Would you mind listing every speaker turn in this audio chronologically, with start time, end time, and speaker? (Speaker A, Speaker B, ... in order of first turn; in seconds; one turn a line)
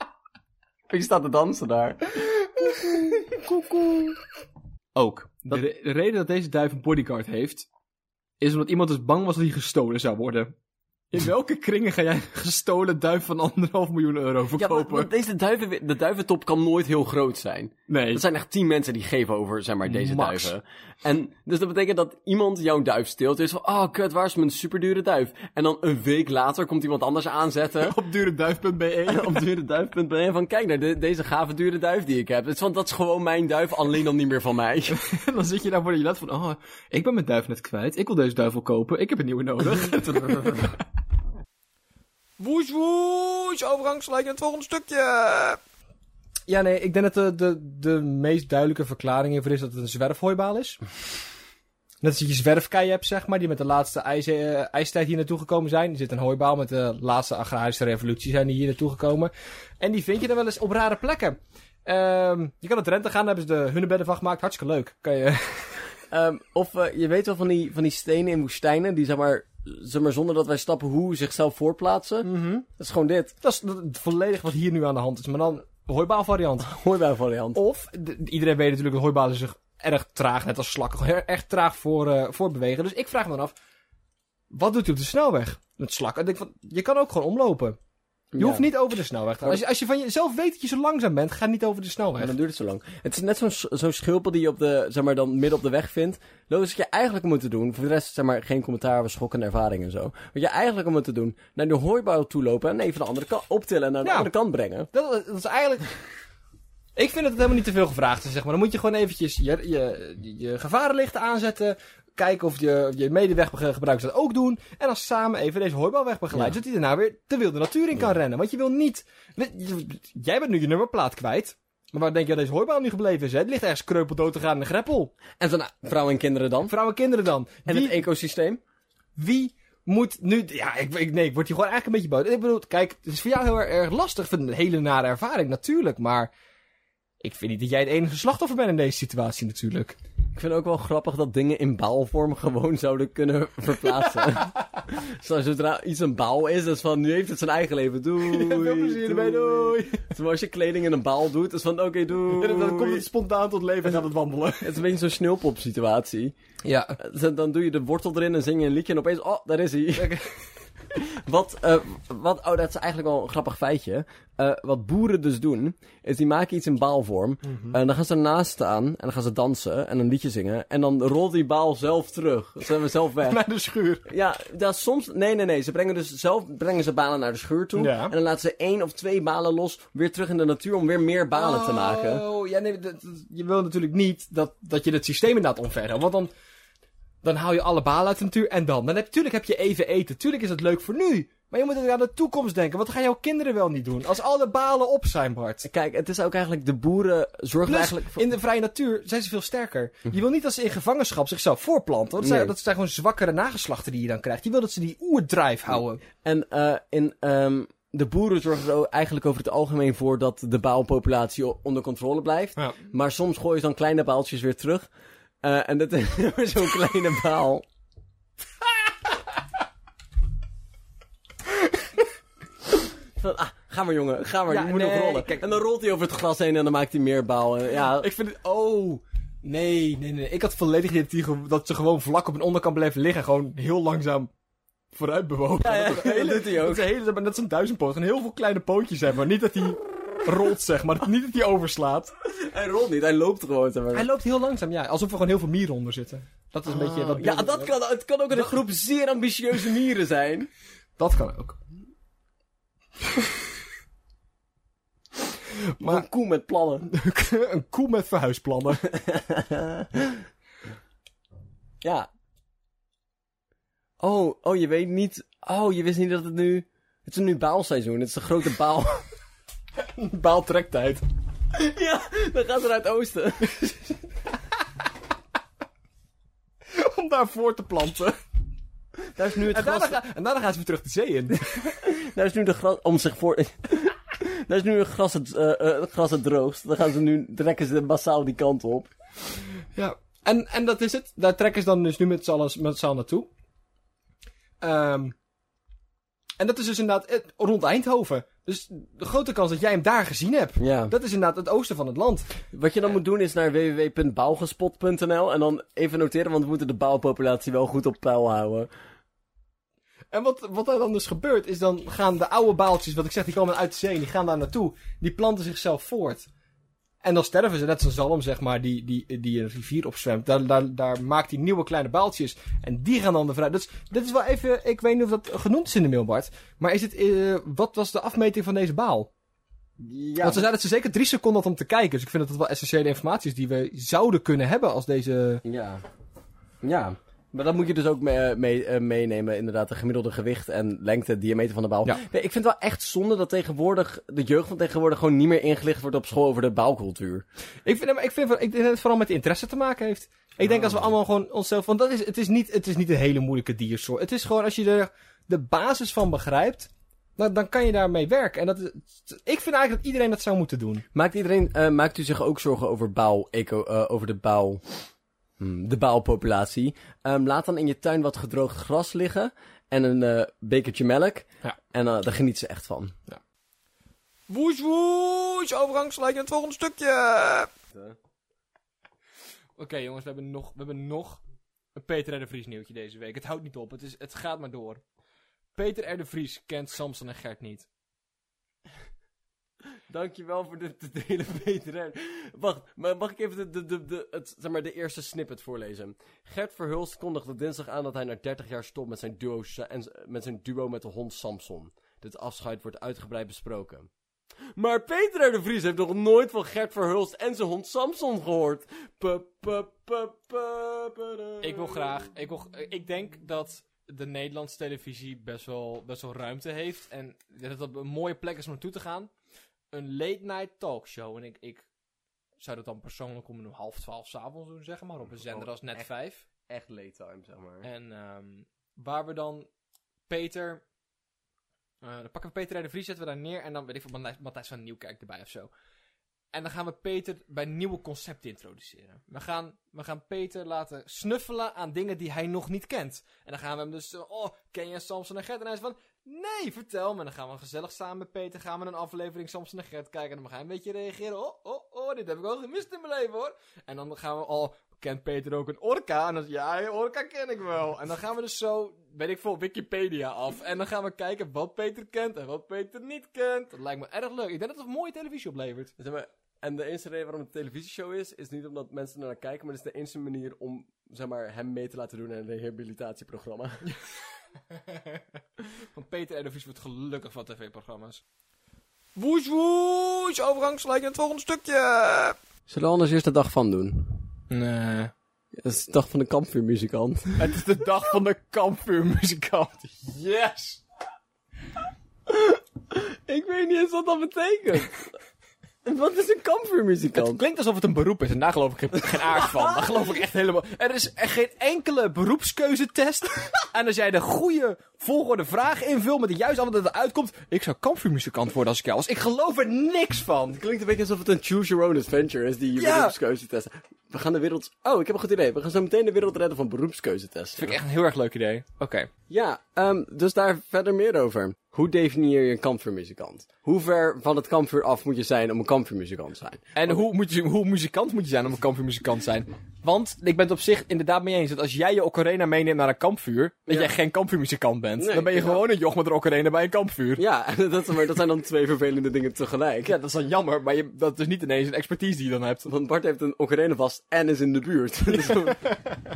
Speaker A: 0.9-2.0
Speaker B: 5.0-7.7
Speaker B: 8.4-10.5
Speaker B: 11.1-15.1
Speaker A: 14.6-28.0
Speaker B: 17.9-18.2
Speaker B: 19.9-20.5
Speaker B: 27.8-29.5
Speaker A: 29.1-35.0
Speaker B: 35.1-40.8
Speaker B: 42.4-45.6
Speaker B: 46.5-50.8
Speaker B: 52.0-65.8
Speaker A: 66.1-73.3
Speaker B: 72.2-72.7
Speaker B: 73.4-76.7
Speaker A: 76.6-77.6
Speaker B: 77.5-83.5
Speaker B: 84.5-87.8
Speaker A: 88.3-88.7
Speaker B: 88.4-92.3
Speaker A: 92.2-104.9
Speaker B: 104.0-104.3
Speaker B: 104.9-105.9
Speaker B: 107.0-125.1
Speaker A: 125.4-126.7
Speaker B: 126.7-128.0
Speaker A: 127.7-128.6
Speaker B: 129.2-136.3
Speaker B: 137.2-140.0
Speaker A: 140.3-153.1
Speaker B: 148.2-150.1
Speaker B: 152.3-154.7
Speaker A: 154.6-156.3
Speaker B: 156.7-157.0
Speaker A: 157.0-160.1
Speaker B: 160.0-160.4
Speaker A: 160.9-173.4
Speaker B: 167.4-167.8
Speaker B: 173.3-174.1
Speaker A: 174.1-182.2
Speaker B: 177.8-178.1
Speaker B: 181.3-186.3
Speaker B: 187.2-195.7
Speaker A: 195.6-198.2
Speaker B: 197.6-206.0
Speaker A: 202.2-202.5
Speaker A: 205.7-214.9
Speaker A: 215.4-217.7
Speaker A: 223.2-228.1
Speaker B: 224.5-225.5
Speaker B: 228.0-234.3
Speaker B: 234.9-242.1
Speaker A: 235.6-236.9
Speaker A: 242.2-244.1
Speaker B: 243.9-247.7
Speaker A: 246.7-250.5
Speaker B: 251.0-251.6
Speaker A: 255.8-256.9
Speaker B: 256.9-258.9
Speaker A: 258.9-260.2
Speaker A: 261.8-262.1
Speaker A: 264.0-269.1
Speaker B: 270.0-271.0
Speaker A: 271.6-273.7
Speaker B: 276.7-278.2
Speaker A: 279.1-280.0
Speaker B: 279.5-281.6
Speaker A: 281.7-288.9
Speaker B: 289.8-293.3
Speaker B: 294.6-295.1
Speaker B: 296.4-302.3
Speaker A: 300.6-300.9
Speaker A: 302.5-308.7
Speaker B: 310.1-316.3
Speaker B: 317.0-329.1
Speaker A: 329.8-330.5
Speaker B: 330.2-335.4
Speaker A: 335.4-335.8
Speaker A: 336.6-347.2
Speaker B: 347.6-360.9
Speaker A: 350.4-350.9
Speaker A: 360.9-364.6
Speaker A: 365.4-373.0
Speaker B: 374.3-377.5
Speaker B: 379.6-381.2
Speaker B: 381.8-384.8
Speaker B: 385.6-387.7
Speaker A: 389.9-403.9
Speaker A: 404.6-411.9
Speaker B: 411.4-419.1
Speaker B: 419.7-421.7
Speaker B: 422.4-426.2
Speaker A: 425.2-425.9
Speaker A: 426.5-427.7
Speaker B: 427.6-429.5
Speaker B: 430.1-430.6
Speaker B: 431.8-435.5
Speaker B: 436.3-465.7
Speaker A: 465.8-473.6
Speaker B: 474.7-475.0
Speaker B: 475.8-478.0
Speaker B: 479.0-482.1
Speaker A: 482.5-484.1
Speaker B: 484.3-484.9
Speaker A: 485.3-487.3
Speaker B: 487.2-490.6
Speaker A: 492.1-494.9
Speaker A: 495.6-497.2
Speaker B: 496.9-510.4
Speaker A: 499.1-499.5
Speaker A: 510.3-517.6
Speaker B: 512.6-513.0
Speaker B: 517.4-518.9
Speaker A: 519.1-526.7
Speaker B: 526.5-537.0
Speaker A: 534.8-535.4
Speaker A: 537.0-539.7
Speaker B: 539.6-542.5
Speaker A: 542.5-545.6